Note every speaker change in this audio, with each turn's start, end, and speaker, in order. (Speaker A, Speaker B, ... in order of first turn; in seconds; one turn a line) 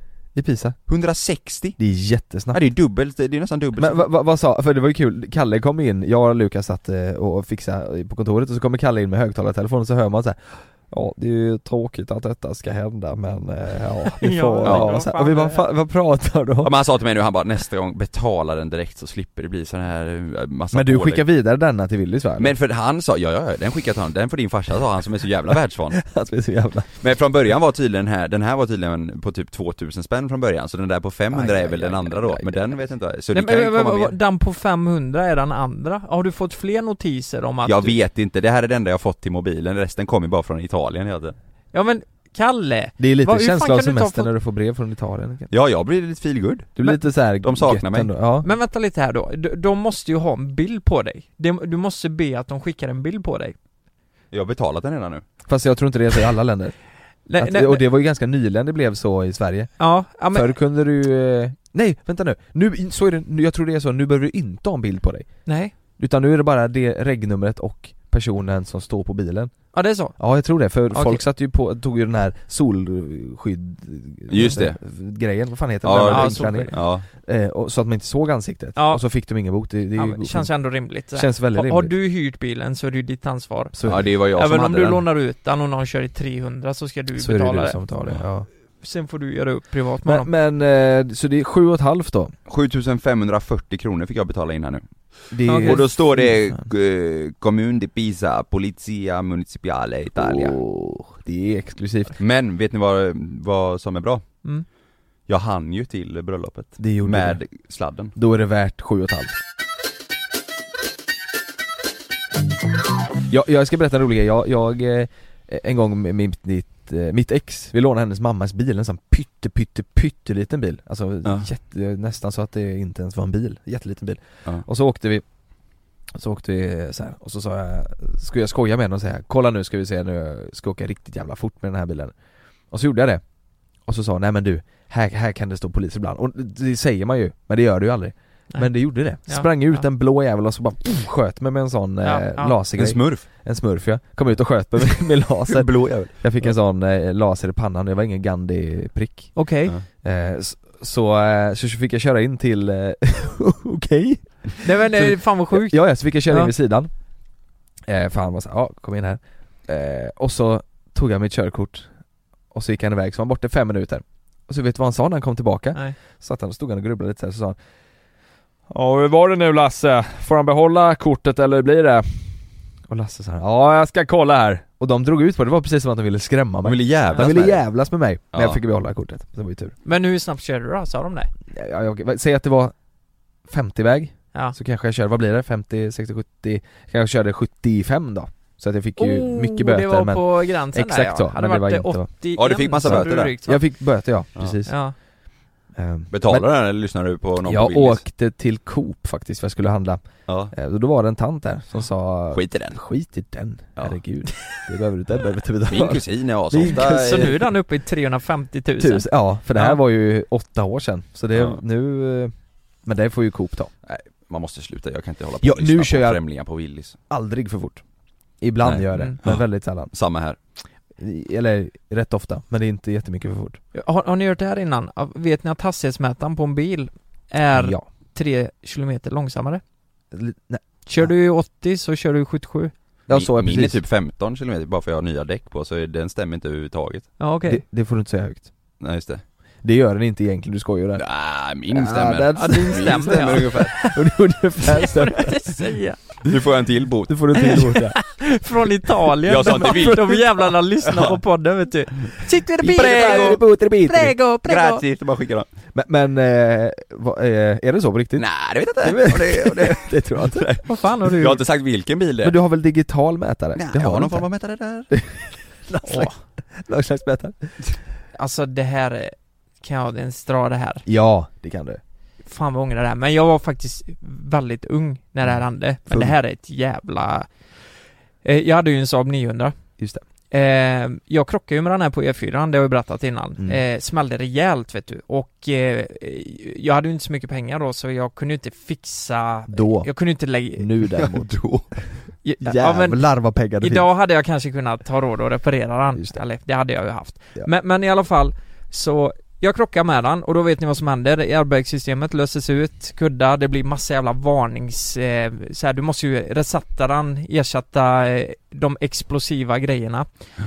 Speaker A: 0.3-0.8
Speaker B: 0.9-1.8
Speaker A: 1.8-2.6
Speaker B: 2.5-4.1
Speaker A: 3.8-16.7
Speaker C: 14.2-15.7
Speaker B: 14.7-15.0
Speaker B: 16.6-21.2
Speaker A: 20.7-22.5
Speaker B: 22.4-26.0
Speaker A: 25.9-26.9
Speaker B: 27.0-34.2
Speaker A: 31.3-32.7
Speaker C: 33.3-38.0
Speaker B: 37.6-41.4
Speaker C: 41.7-44.3
Speaker A: 43.0-45.5
Speaker B: 45.5-46.8
Speaker A: 46.8-48.5
Speaker B: 47.4-48.1
Speaker C: 48.4-53.5
Speaker B: 54.3-55.2
Speaker A: 55.5-56.8
Speaker C: 57.3-57.9
Speaker A: 57.4-59.7
Speaker C: 59.8-60.5
Speaker A: 60.3-65.3
Speaker C: 65.5-65.7
Speaker A: 66.0-69.5
Speaker C: 69.7-70.2
Speaker A: 70.2-80.5
Speaker C: 70.9-71.2
Speaker B: 74.3-74.8
Speaker B: 75.8-77.0
Speaker C: 76.0-76.8
Speaker C: 78.8-79.0
Speaker C: 80.0-87.8
Speaker A: 81.1-81.9
Speaker A: 83.7-84.1
Speaker B: 83.9-85.0
Speaker A: 87.2-88.5
Speaker C: 88.8-90.3
Speaker A: 90.0-92.3
Speaker B: 92.5-94.8
Speaker A: 95.3-96.7
Speaker C: 95.5-95.8
Speaker B: 95.5-100.6
Speaker A: 100.2-102.2
Speaker B: 102.2-104.2
Speaker B: 105.3-108.1
Speaker A: 106.8-107.4
Speaker A: 108.1-109.3
Speaker A: 113.3-125.2
Speaker A: 126.1-132.1
Speaker A: 132.7-133.2
Speaker A: 133.8-149.4
Speaker C: 138.5-139.8
Speaker C: 142.0-142.6
Speaker B: 142.8-143.3
Speaker B: 145.5-146.5
Speaker C: 149.3-149.8
Speaker A: 150.0-156.9
Speaker C: 154.6-156.5
Speaker A: 157.9-161.9
Speaker A: 162.5-167.6
Speaker A: 168.7-179.8
Speaker B: 176.6-177.6
Speaker B: 178.3-178.6
Speaker C: 179.8-181.3
Speaker A: 181.5-182.7
Speaker A: 183.4-192.1
Speaker C: 189.0-193.6
Speaker B: 192.4-193.4
Speaker A: 192.8-194.8
Speaker C: 194.7-194.9
Speaker A: 195.7-196.5
Speaker B: 196.1-198.0
Speaker A: 197.4-207.4
Speaker B: 200.3-200.5
Speaker B: 202.3-202.8
Speaker B: 205.7-207.4
Speaker C: 206.6-209.8
Speaker A: 208.8-212.3
Speaker A: 212.8-213.7
Speaker B: 213.9-217.0
Speaker A: 215.4-216.2
Speaker A: 217.1-217.8
Speaker A: 218.4-219.9
Speaker B: 218.6-220.4
Speaker A: 221.0-223.6
Speaker C: 223.7-229.6
Speaker A: 227.5-227.8
Speaker A: 230.1-231.1
Speaker C: 230.9-232.7
Speaker A: 233.1-233.8
Speaker B: 233.1-237.1
Speaker C: 237.2-237.6
Speaker A: 237.4-238.5
Speaker B: 238.8-239.2
Speaker A: 239.6-241.1
Speaker B: 241.0-243.8
Speaker A: 241.7-245.5
Speaker C: 242.4-243.9
Speaker C: 244.8-246.0
Speaker B: 246.2-247.7
Speaker A: 247.1-248.0
Speaker C: 247.4-254.8
Speaker B: 249.3-251.2
Speaker A: 252.6-254.2
Speaker B: 252.6-253.4
Speaker B: 254.4-255.5
Speaker A: 255.7-258.3
Speaker B: 258.2-262.4
Speaker A: 258.8-260.5
Speaker C: 260.7-261.4
Speaker A: 262.2-264.3
Speaker B: 263.6-264.9
Speaker A: 264.9-267.5
Speaker C: 265.9-266.2
Speaker C: 268.1-270.8
Speaker A: 270.9-271.8
Speaker C: 272.2-277.3
Speaker A: 275.2-276.1
Speaker C: 278.2-279.6
Speaker C: 280.3-290.7
Speaker A: 289.5-289.9
Speaker A: 290.6-291.7
Speaker B: 291.1-291.6
Speaker C: 292.2-293.0
Speaker A: 292.4-293.9
Speaker C: 293.6-310.1
Speaker A: 295.9-296.2